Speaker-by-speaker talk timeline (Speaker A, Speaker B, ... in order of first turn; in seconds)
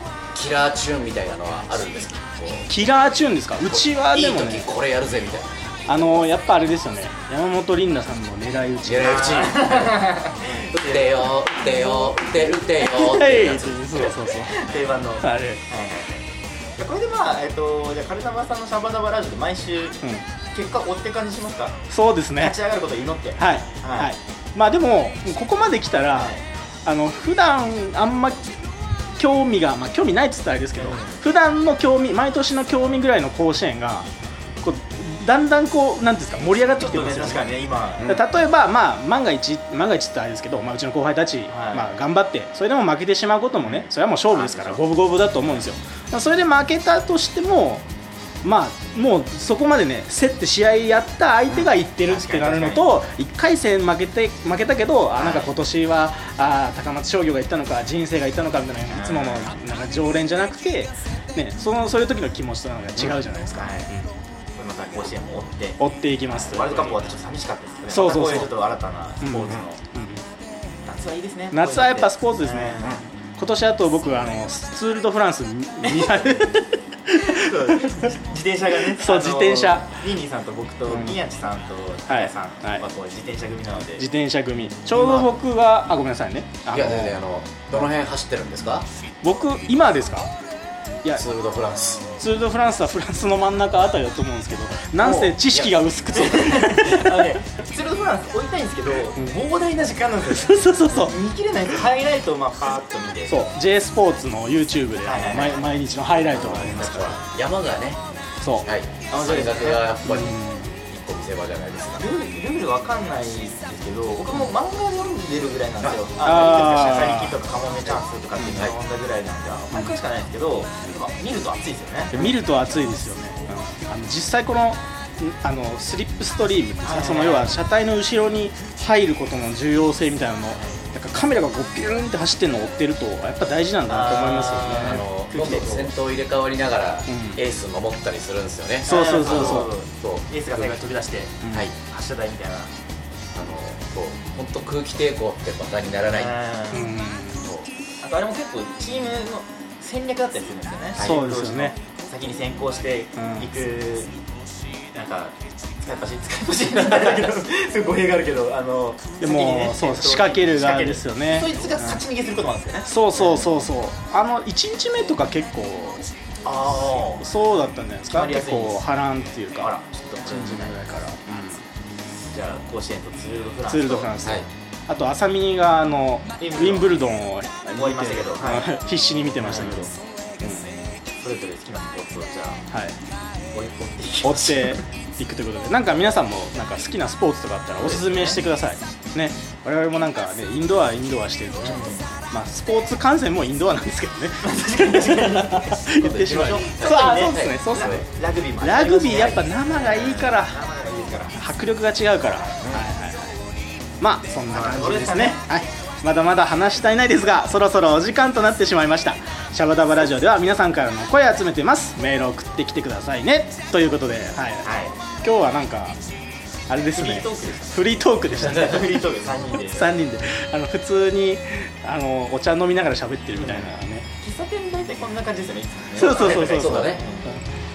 Speaker A: 0.3-2.7, 3.6-6.2, 8.8-10.1, 10.6-14.0, 86.7-88.8, 91.2-92.1, 95.5-95.7, 106.3-108.0, 108.6-112.0, 118.4-118.7, 134.8-140.8, 143.3-146.4, 174.2-174.5, 196.7-198.1, 226.0-227.0
Speaker B: 2.7-4.7, 5.9-9.6, 12.6-14.6, 15.2-15.6, 21.9-22.6, 23.4-28.5, 29.2-34.1, 34.6-37.5, 38.0-47.8, 48.4-64.1, 65.8-67.1, 67.9-68.6, 69.2-70.2, 71.5-78.0, 78.9-80.0, 80.9-81.2, 82.1-82.8, 84.0-87.2, 89.2-90.3, 92.2-97.3, 100.3-101.2, 103.3-107.2, 108.4-108.7, 110.0-110.7, 116.2-117.4, 122.1-135.0, 137.1-137.4, 138.9-139.7, 141.4-141.7, 146.7-147.5, 151.0-151.8, 153.2-153.5, 159.2-162.0, 162.8-166.1, 166.6-171.6, 173.7-180.7, 182.7-182.9, 184.2-198.1, 198.6-200.6, 201.3-203.4, 204.0-214.7, 215.2-216.0, 216.7-219.1, 219.7-224.1, 225.9-227.4
Speaker C: 9.0-12.3, 13.9-20.0, 20.5-21.8, 22.4-24.1, 26.1-26.4, 30.7-31.2, 36.8-38.2, 41.5-41.9, 43.6-45.6, 51.5-52.9, 55.1-55.5, 58.9-59.5, 63.5-63.9, 64.5-69.8, 70.8-73.0, 75.8-76.4, 77.1-84.0, 84.9-85.3, 95.0-95.4, 96.1-103.4, 105.0-105.7, 109.1-109.8, 112.0-122.2, 126.8-127.5, 133.9-135.9, 138.8-142.7, 146.1-146.9, 148.0-154.1, 154.9-163.6, 166.4-167.2, 168.1-168.8, 169.5-170.8, 172.3-174.1, 176.4-177.0, 177.7-178.7, 179.4-179.9, 181.2-182.6, 183.5-184.8, 187.8-188.4, 191.6-192.1, 194.4-201.4, 202.4-202.8, 204.5-205.4, 214.6-214.9, 216.9-219.9, 223.4-227.3